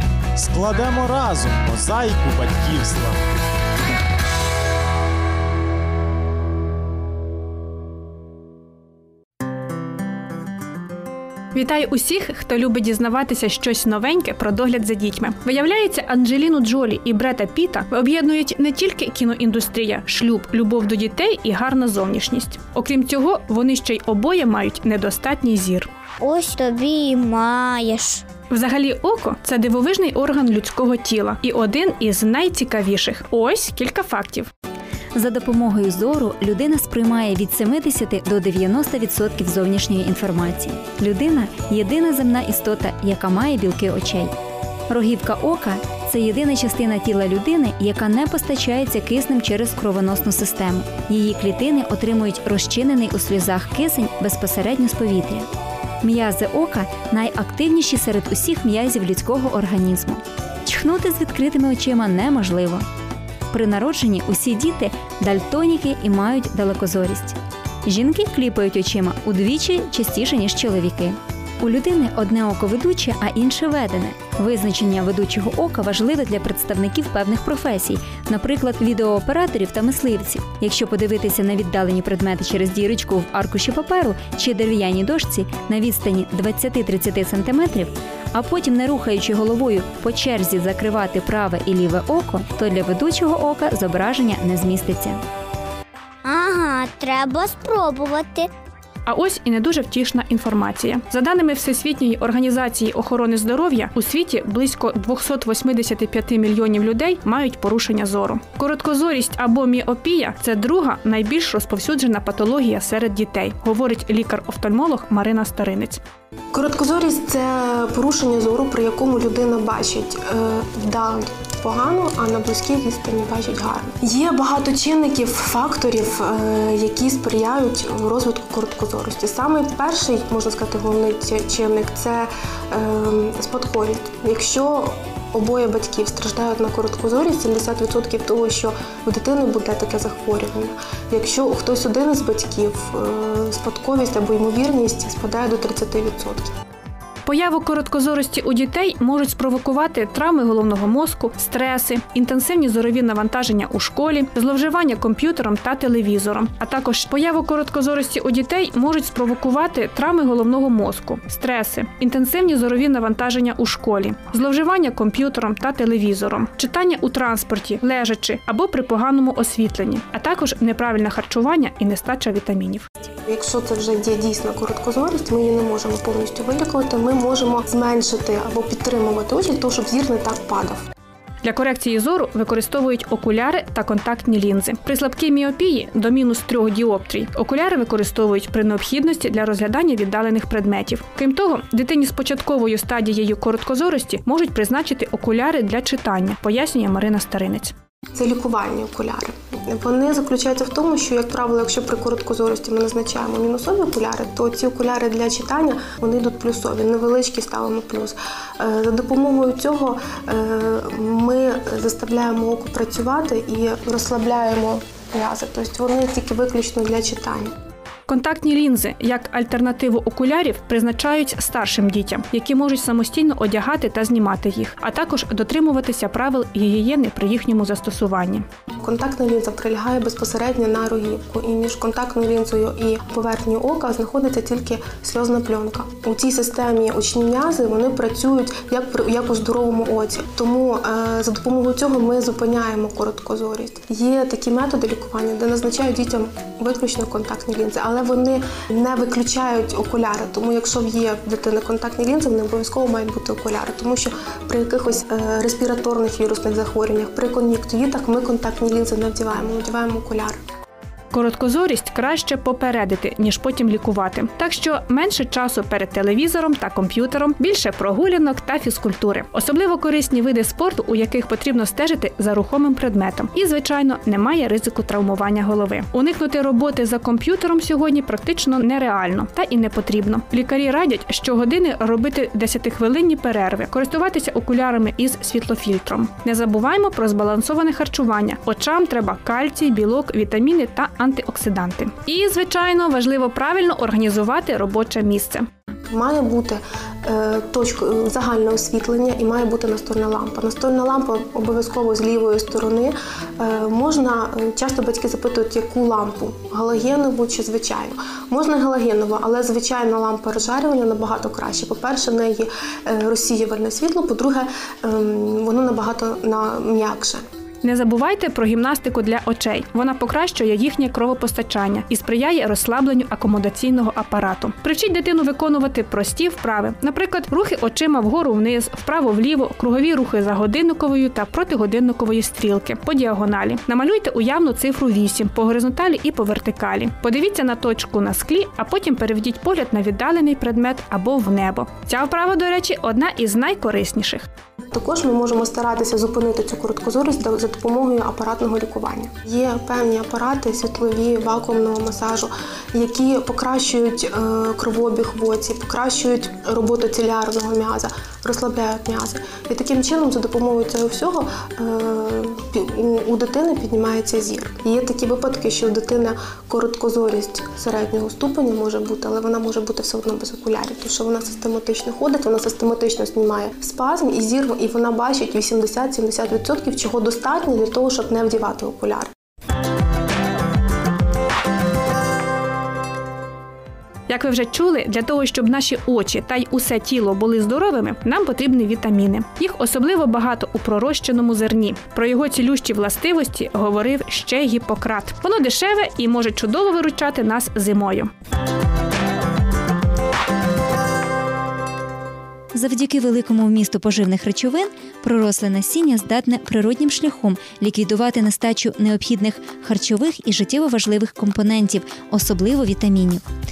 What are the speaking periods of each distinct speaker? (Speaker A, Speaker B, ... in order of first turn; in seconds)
Speaker A: 0.3-3.2
Speaker B: 11.5-25.9, 28.5-34.5, 99.0-116.0, 147.2-172.8, 181.4-197.7, 218.1-228.4, 261.1-295.5, 317.6-344.3, 384.1-398.1
Speaker C: 26.2-28.2, 96.2-98.5
Speaker D: 35.1-44.3, 44.9-55.5, 56.0-62.9, 63.5-95.2, 402.5-413.2
Speaker E: 116.5-146.5, 173.2-180.8, 198.1-217.5, 228.8-260.4, 295.9-317.2, 344.7-379.1